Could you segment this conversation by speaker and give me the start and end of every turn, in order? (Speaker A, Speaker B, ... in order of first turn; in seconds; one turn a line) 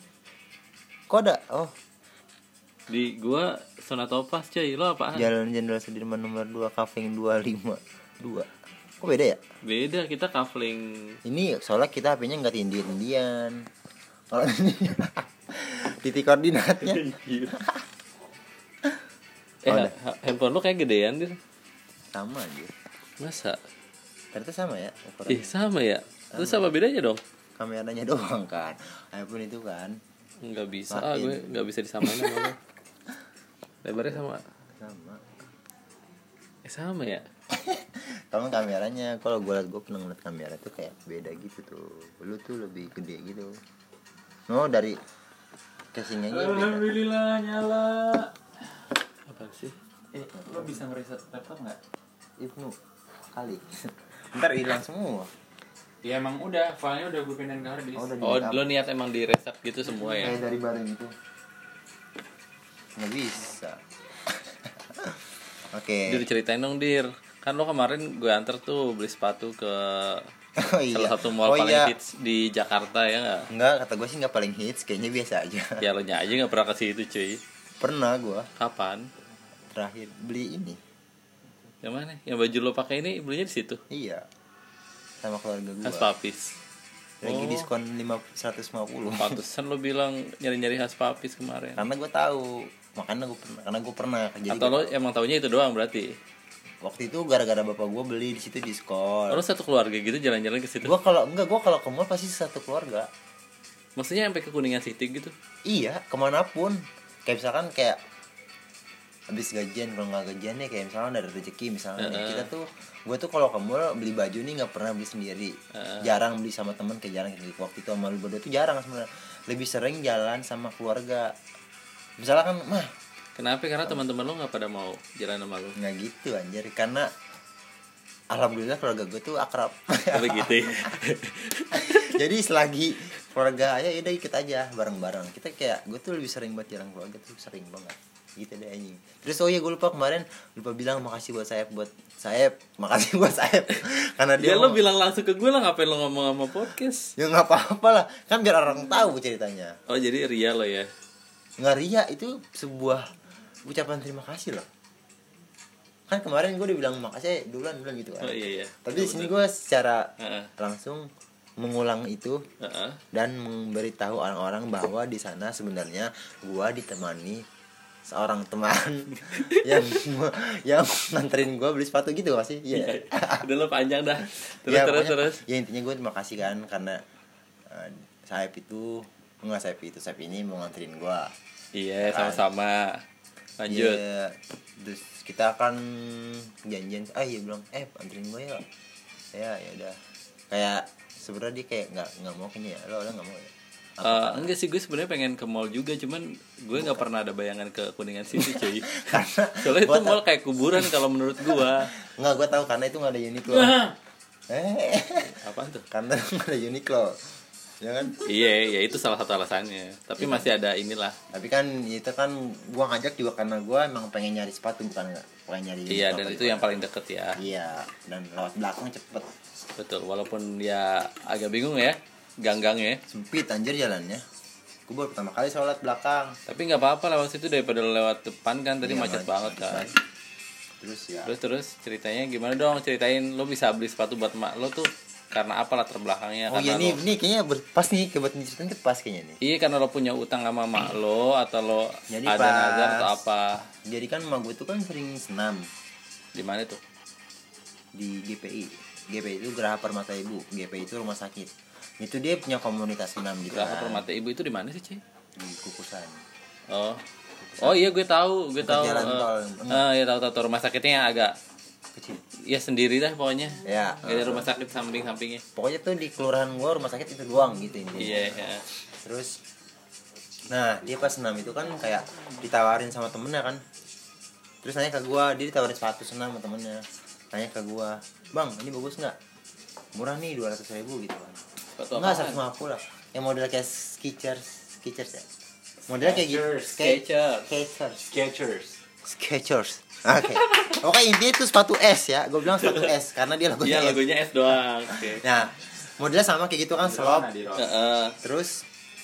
Speaker A: 1.1-1.7
Speaker B: 2.9-5.3
Speaker A: 5.1-8.5
Speaker A: 9.0-9.4
Speaker B: 9.6-11.2
Speaker A: 11.2-13.6
Speaker A: 14.3-17.9
Speaker B: 16.8-17.6
Speaker B: 19.6-21.4
Speaker A: 19.7-19.9
Speaker A: 22.1-22.7
Speaker B: 23.2-23.6
Speaker A: 24.3-25.5
Speaker B: 25.3-27.2
Speaker A: 26.3-26.7
Speaker A: 27.6-30.0
Speaker B: 30.4-32.5
Speaker A: 30.9-32.6
Speaker B: 33.8-34.4
Speaker A: 34.8-35.3
Speaker B: 36.7-37.2
Speaker A: 37.5-43.5
Speaker A: 44.5-45.0
Speaker A: 45.9-47.0
Speaker C: 46.3-48.3
Speaker B: 49.3-49.8
Speaker C: 50.1-51.8
Speaker A: 50.5-50.8
Speaker A: 52.4-52.7
Speaker A: 53.3-55.3
Speaker C: 56.0-58.1
Speaker A: 57.9-58.7
Speaker B: 58.2-60.4
Speaker A: 60.0-61.1
Speaker A: 63.0-65.2
Speaker A: 65.7-66.3
Speaker B: 66.1-70.3
Speaker A: 70.6-71.9
Speaker B: 70.9-73.5
Speaker A: 73.5-75.8
Speaker B: 75.8-77.4
Speaker A: 77.8-78.5
Speaker B: 78.6-79.0
Speaker A: 79.7-80.8
Speaker B: 81.8-83.8
Speaker A: 83.9-84.2
Speaker A: 85.2-86.1
Speaker B: 85.8-86.5
Speaker A: 87.2-89.4
Speaker B: 87.2-87.7
Speaker B: 89.2-91.8
Speaker A: 91.8-94.9
Speaker B: 94.5-96.1
Speaker A: 96.8-99.4
Speaker B: 99.3-100.9
Speaker A: 100.8-103.1
Speaker B: 104.0-105.3
Speaker A: 105.7-108.0
Speaker A: 109.3-121.3
Speaker B: 112.0-112.5
Speaker B: 115.8-116.1
Speaker A: 122.2-122.9
Speaker B: 123.4-125.8
Speaker A: 125.8-127.1
Speaker A: 128.3-130.9
Speaker B: 130.1-132.1
Speaker A: 131.7-144.8
Speaker B: 144.4-147.1
Speaker A: 147.2-149.8
Speaker B: 149.9-150.9
Speaker A: 151.6-153.1
Speaker A: 153.7-154.7
Speaker A: 156.1-161.1
Speaker B: 158.2-159.3
Speaker B: 160.2-160.5
Speaker A: 161.6-162.4
Speaker B: 162.6-163.0
Speaker A: 163.1-167.4
Speaker A: 168.1-173.5
Speaker B: 169.2-169.8
Speaker B: 172.7-175.4
Speaker A: 174.6-177.0
Speaker A: 177.7-181.3
Speaker B: 181.7-183.0
Speaker A: 182.0-182.4
Speaker B: 183.6-184.0
Speaker A: 183.7-188.6
Speaker A: 189.3-190.0
Speaker A: 190.5-194.5
Speaker B: 194.0-198.9
Speaker A: 196.7-197.1
Speaker A: 198.3-200.2
Speaker B: 199.6-201.9
Speaker A: 200.7-203.8
Speaker C: 203.5-203.9
Speaker A: 204.5-205.3
Speaker B: 205.2-205.9
Speaker A: 205.9-207.2
Speaker A: 207.8-208.3
Speaker B: 208.2-211.2
Speaker A: 210.2-210.5
Speaker A: 211.3-216.8
Speaker B: 215.9-217.4
Speaker A: 217.4-219.3
Speaker B: 219.8-223.0
Speaker A: 223.1-224.2
Speaker A: 224.9-226.3
Speaker B: 226.5-229.9
Speaker A: 228.8-229.9
Speaker A: 230.8-231.3
Speaker B: 231.2-237.0
Speaker A: 236.5-239.4
Speaker B: 239.4-243.7
Speaker A: 242.1-243.2
Speaker A: 243.9-245.6
Speaker B: 246.3-246.8
Speaker A: 247.9-254.1
Speaker B: 253.5-255.0
Speaker A: 255.4-256.2
Speaker B: 256.7-257.0
Speaker A: 257.4-257.9
Speaker B: 257.6-261.4
Speaker A: 258.6-259.9
Speaker A: 261.9-262.2
Speaker B: 262.5-265.4
Speaker A: 263.6-264.5
Speaker A: 265.6-268.5
Speaker B: 268.0-268.6
Speaker A: 269.0-269.4
Speaker A: 270.5-273.6
Speaker A: 274.6-279.1
Speaker A: 279.9-281.4
Speaker B: 281.8-282.4
Speaker A: 282.0-285.3
Speaker A: 285.9-288.1
Speaker C: 285.9-286.8
Speaker B: 286.8-287.5
Speaker C: 288.1-288.8
Speaker A: 289.1-297.3
Speaker B: 290.3-290.8
Speaker B: 292.5-292.9
Speaker B: 293.6-295.2
Speaker C: 296.8-297.7
Speaker B: 297.6-298.2
Speaker A: 298.2-298.6